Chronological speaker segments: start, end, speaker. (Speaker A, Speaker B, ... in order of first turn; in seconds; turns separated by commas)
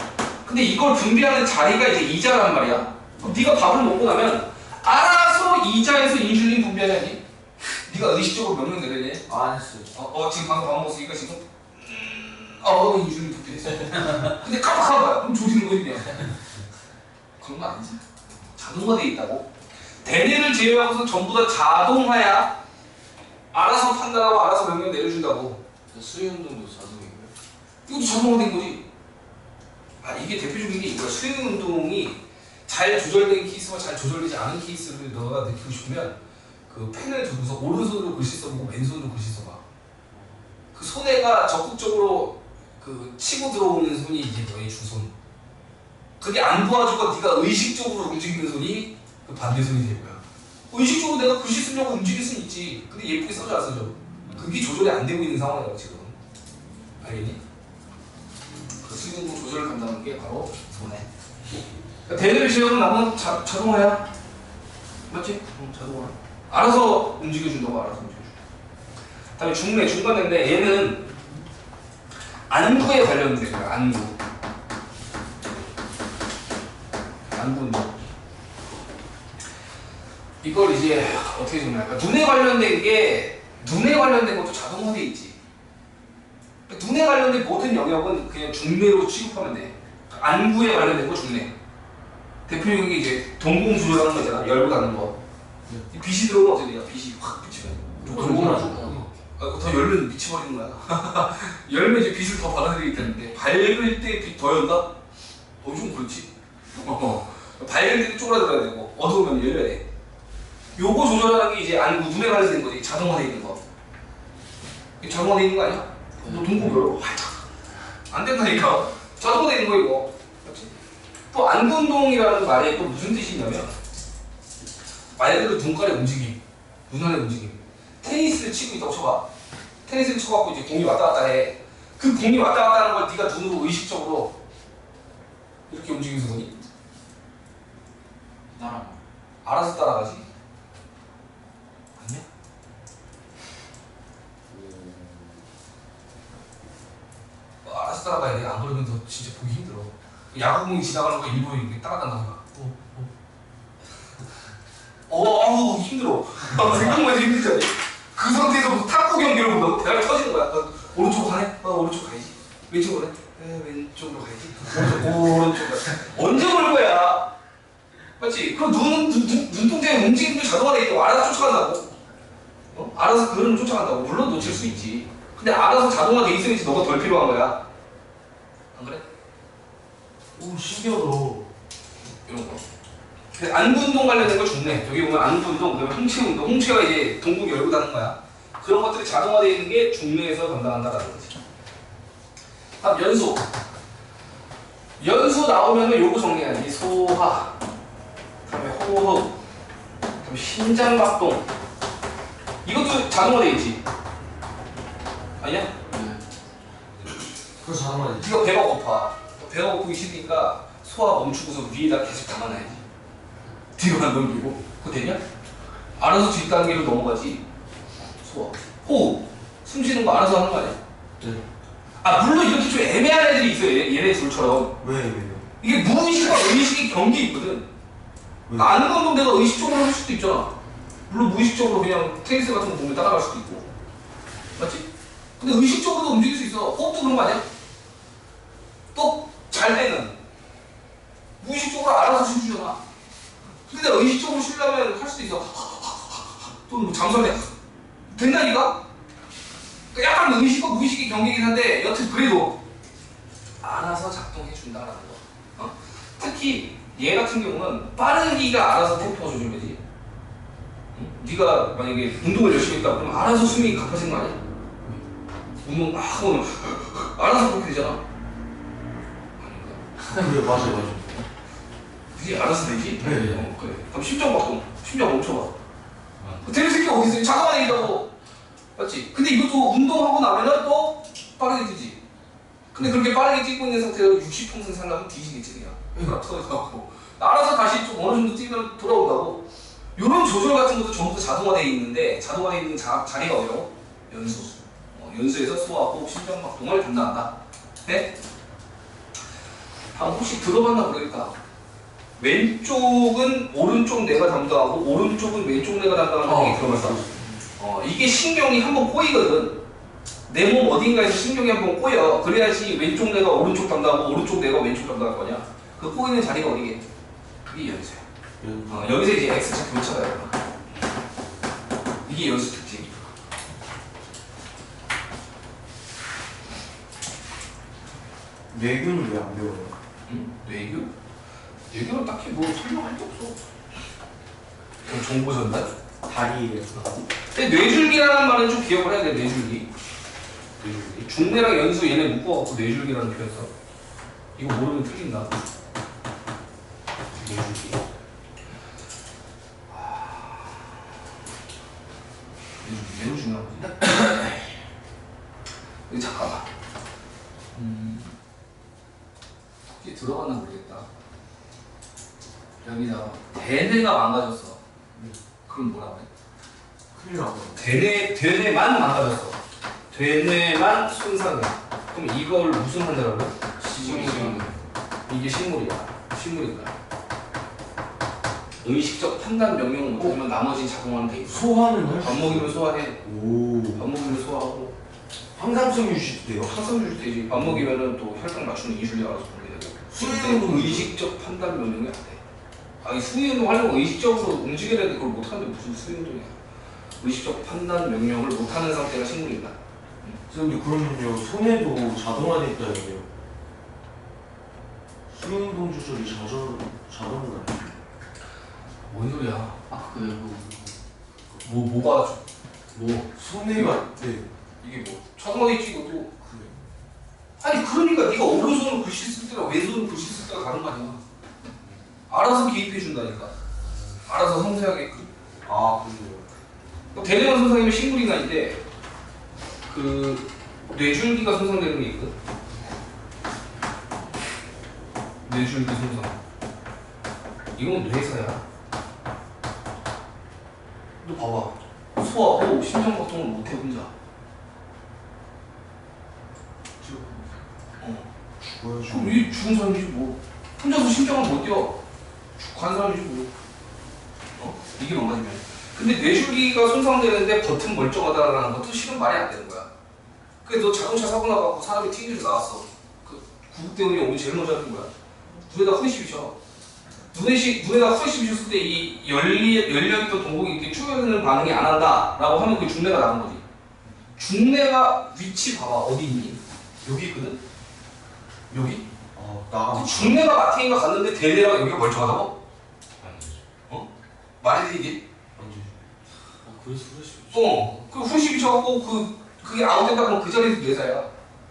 Speaker A: 0.5-7.2, Speaker A: 7.9-9.3, Speaker B: 9.3-9.9, Speaker A: 9.9-16.4, Speaker A: 17.4-18.0, Speaker A: 18.6-19.5, Speaker A: 20.0-22.6, Speaker A: 23.5-25.6, Speaker C: 25.9-27.3, Speaker A: 27.9-28.8, Speaker A: 30.0-39.6, Speaker A: 40.7-45.1, Speaker A: 46.2-56.2, Speaker A: 57.0-57.4, Speaker A: 58.8-61.1, Speaker A: 62.1-64.1, Speaker A: 65.1-68.4, Speaker A: 69.4-71.2, Speaker A: 72.5-74.2, Speaker A: 77.3-77.9, Speaker A: 80.4-85.4, Speaker A: 86.7-91.5, Speaker A: 92.5-95.2, Speaker A: 95.9-104.9, Speaker B: 98.0-99.1, Speaker C: 98.5-98.9, Speaker A: 105.6-109.8, Speaker A: 110.8-113.6, Speaker A: 115.0-117.4, Speaker C: 116.2-116.7, Speaker A: 118.1-120.8, Speaker A: 121.3-123.8, Speaker A: 125.2-129.3, Speaker A: 129.9-134.4, Speaker A: 135.7-136.5, Speaker C: 138.5-139.0, Speaker A: 139.4-140.3, Speaker A: 142.0-142.3, Speaker B: 144.5-145.4, Speaker A: 147.6-153.0, Speaker A: 155.1-167.3, Speaker A: 168.2-171.9, Speaker A: 172.7-177.6, Speaker A: 178.7-179.0, Speaker B: 180.3-181.5, Speaker A: 182.2-182.6, Speaker A: 183.3-191.4, Speaker A: 192.8-193.5, Speaker A: 195.0-197.6, Speaker A: 198.5-199.4, Speaker A: 200.2-201.5, Speaker A: 202.6-203.8, Speaker A: 205.4-205.7, Speaker C: 205.9-206.2, Speaker B: 207.6-208.3, Speaker A: 208.2-212.8, Speaker A: 213.8-215.2, Speaker A: 216.0-217.4, Speaker A: 218.2-220.8, Speaker A: 222.0-224.8, Speaker B: 224.8-225.5, Speaker A: 225.6-227.7, Speaker B: 228.5-228.7, Speaker A: 228.6-230.5, Speaker A: 231.1-233.7, Speaker A: 234.6-234.9, Speaker A: 235.4-237.4, Speaker A: 238.9-240.2, Speaker A: 241.4-242.8, Speaker A: 243.7-247.5, Speaker A: 248.1-248.8, Speaker A: 249.9-252.6, Speaker A: 253.6-259.8, Speaker A: 260.9-264.4, Speaker A: 265.6-268.0, Speaker A: 269.4-269.8, Speaker B: 270.1-271.3, Speaker A: 272.1-275.6, Speaker B: 273.0-273.5, Speaker A: 276.4-278.1, Speaker A: 278.8-282.0, Speaker A: 282.7-289.4, Speaker A: 290.0-297.3, Speaker A: 297.9-298.1, Speaker A: 299.9-301.4, Speaker A: 302.2-309.6, Speaker B: 306.2-307.2, Speaker A: 310.3-316.9, Speaker A: 317.4-318.0, Speaker B: 318.4-319.0, Speaker A: 318.7-320.4, Speaker A: 322.1-322.9, Speaker B: 328.5-329.8, Speaker A: 330.1-330.9, Speaker A: 331.7-333.4, Speaker A: 334.9-335.7, Speaker B: 336.0-337.0, Speaker A: 337.3-339.7, Speaker A: 340.6-343.5, Speaker A: 344.4-345.4, Speaker A: 347.1-347.8, Speaker A: 349.7-350.8, Speaker A: 352.6-353.8, Speaker A: 355.9-356.5, Speaker A: 357.5-358.1, Speaker A: 359.8-360.9, Speaker A: 362.6-364.6, Speaker A: 365.5-366.1, Speaker B: 366.9-367.8, Speaker A: 367.6-369.4, Speaker A: 369.9-374.5, Speaker C: 373.8-374.5, Speaker B: 374.1-374.4, Speaker A: 375.1-376.8, Speaker A: 378.6-383.0, Speaker B: 381.2-383.9, Speaker A: 383.8-384.8, Speaker B: 385.3-386.6, Speaker A: 386.4-392.2, Speaker B: 389.9-391.0, Speaker A: 392.8-396.4, Speaker A: 397.0-400.2, Speaker B: 400.3-403.1, Speaker B: 405.1-407.8, Speaker A: 408.8-409.6, Speaker C: 409.7-410.8, Speaker A: 411.4-412.2, Speaker C: 412.7-413.1, Speaker B: 413.1-414.3, Speaker A: 413.6-413.8, Speaker A: 414.6-416.1, Speaker B: 416.2-416.6, Speaker A: 417.4-421.0, Speaker A: 422.1-423.3, Speaker B: 423.7-423.9, Speaker A: 424.1-425.1, Speaker B: 425.4-426.3, Speaker A: 426.9-428.6, Speaker A: 429.7-432.1, Speaker A: 435.3-436.2, Speaker A: 437.6-438.4, Speaker A: 441.0-443.9, Speaker B: 446.8-447.2, Speaker A: 447.8-448.1, Speaker B: 448.5-449.3, Speaker A: 448.9-451.8, Speaker A: 452.4-453.3, Speaker A: 454.4-459.7, Speaker A: 460.4-464.9, Speaker A: 465.5-466.4, Speaker A: 467.1-473.4, Speaker A: 474.2-477.4, Speaker A: 478.5-478.8, Speaker B: 479.1-480.2, Speaker A: 479.7-482.3, Speaker A: 484.4-485.0, Speaker B: 485.4-485.7, Speaker C: 486.4-487.4, Speaker A: 487.3-491.1, Speaker B: 487.3-487.6